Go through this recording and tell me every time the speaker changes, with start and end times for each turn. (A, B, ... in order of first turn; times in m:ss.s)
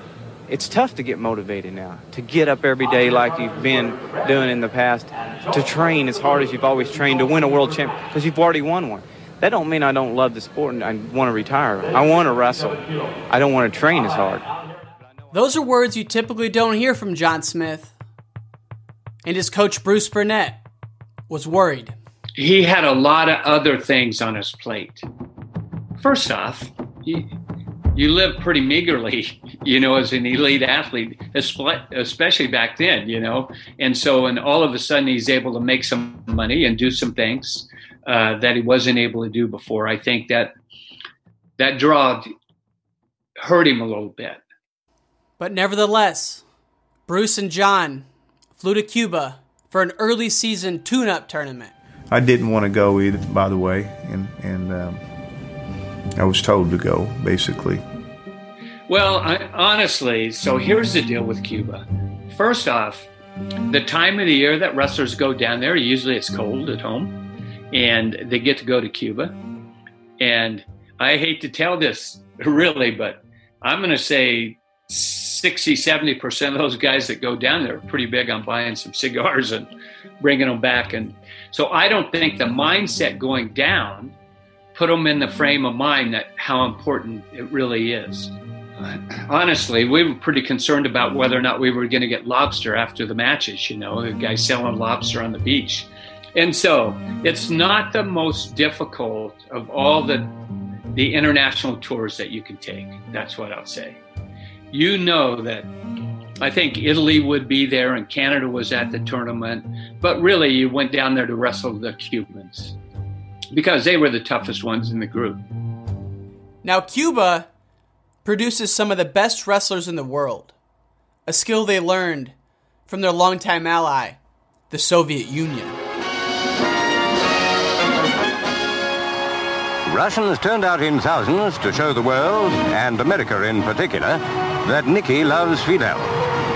0:00.5-0:14.5 A
0:15.3-0:17.9 B
0:19.2-0:20.6 B
0:21.3-0:22.0 B
0:22.4-0:25.1 C
0:26.0-0:27.3 C
0:28.0-0:40.5 C
0:41.6-0:42.3 C
0:43.4-0:44.4 C
0:45.4-0:46.4 B
0:47.1-0:51.7 B
0:52.1-0:55.0 D
0:56.2-0:57.8 D
0:58.9-1:03.1 C
1:03.7-1:07.2 C
1:07.7-1:09.4 C
1:10.2-1:24.1 C
1:24.7-1:40.3 C
1:40.9-1:44.0 C
1:44.7-1:45.7 C
1:46.4-1:52.8 C
1:53.5-1:55.4 C
1:56.6-1:57.5 B
1:58.2-2:00.5 B
2:01.3-2:02.3 B
2:02.9-2:04.2 B
2:04.7-2:05.8 B
2:09.9-2:16.1 E